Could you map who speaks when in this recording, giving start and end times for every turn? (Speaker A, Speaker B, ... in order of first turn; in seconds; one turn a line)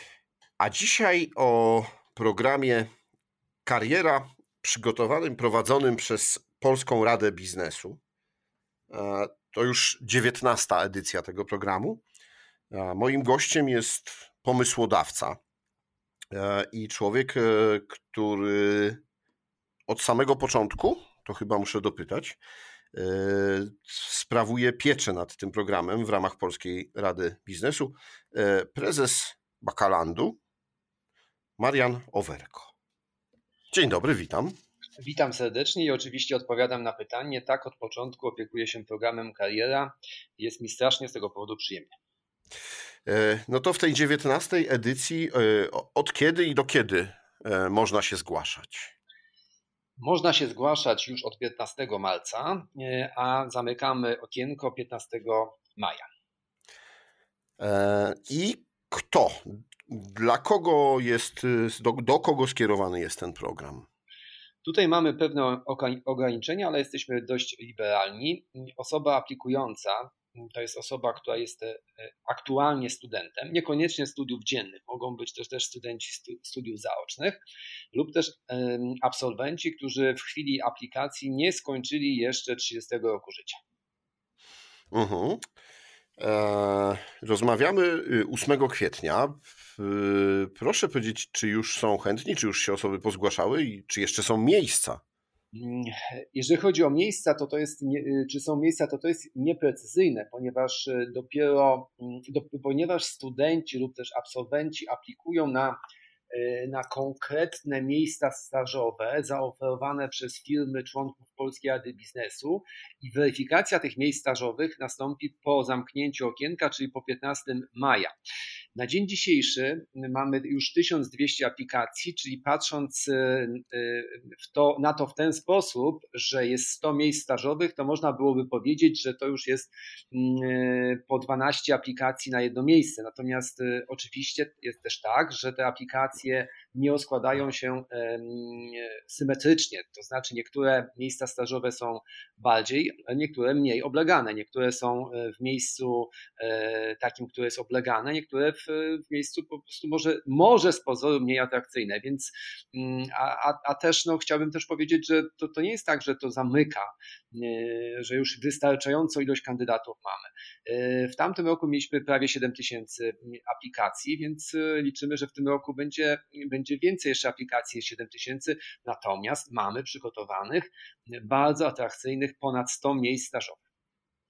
Speaker A: 0.6-2.9
Speaker A: 3.6-8.0
Speaker A: 8.9-12.0
Speaker A: 12.7-15.4
Speaker A: 16.3-19.0
Speaker A: 19.9-22.4
Speaker A: 22.9-30.4
Speaker A: 31.6-32.7
Speaker A: 33.7-34.5
Speaker B: 35.0-41.9
Speaker A: 43.0-48.9
Speaker B: 50.0-56.0
Speaker A: 57.6-63.9
Speaker B: 64.6-77.4
Speaker B: 77.9-83.6
Speaker A: 84.9-85.4
Speaker A: 86.2-95.0
Speaker B: 95.5-105.8
Speaker B: 106.3-118.1
Speaker B: 118.8-173.6